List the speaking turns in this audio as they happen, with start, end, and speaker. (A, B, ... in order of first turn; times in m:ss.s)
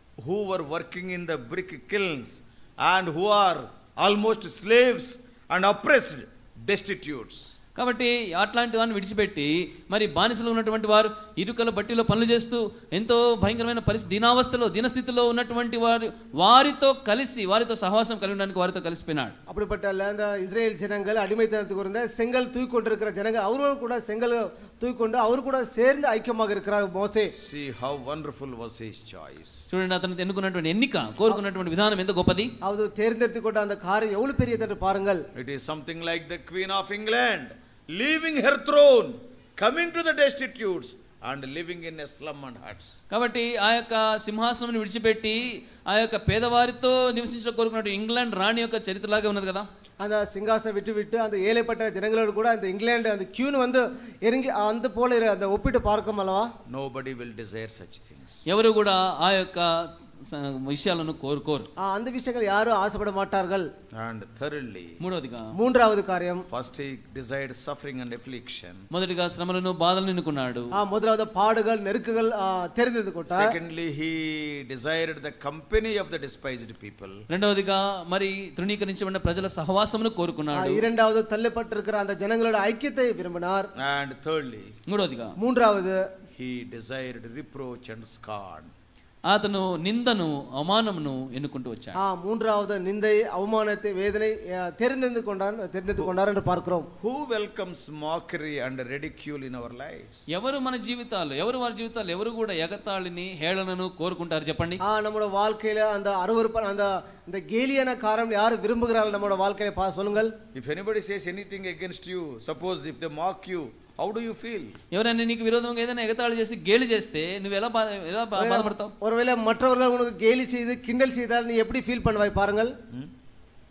0:00.2-0:07.5 A
0:07.8-0:19.3 B
0:19.5-0:27.3 C
0:27.4-0:29.6 A
0:29.7-0:32.5 B
0:32.6-0:35.2 C
0:35.3-0:42.9 A
0:43.1-0:49.7 B
0:50.0-0:56.5 C
0:56.7-0:58.4 A
0:58.5-1:01.7 B
1:01.8-1:03.7 C
1:03.9-1:05.0 A
1:05.0-1:05.5 B
1:05.6-1:06.4 C
1:06.5-1:08.8 A
1:08.9-1:10.7 B
1:10.7-1:13.5 C
1:13.3-1:17.2 A
1:17.3-1:20.8 B
1:20.5-1:23.7 C
1:23.8-1:24.7 A
1:24.9-1:25.3 B
1:25.4-1:26.0 C
1:26.3-1:28.7 A
1:29.3-1:32.0 B
1:32.0-1:36.9 C
1:37.0-1:40.2 A
1:40.3-1:44.8 B
1:44.8-1:50.4 C
1:50.5-1:54.8 A
1:54.9-1:58.9 B
1:58.4-2:02.7 C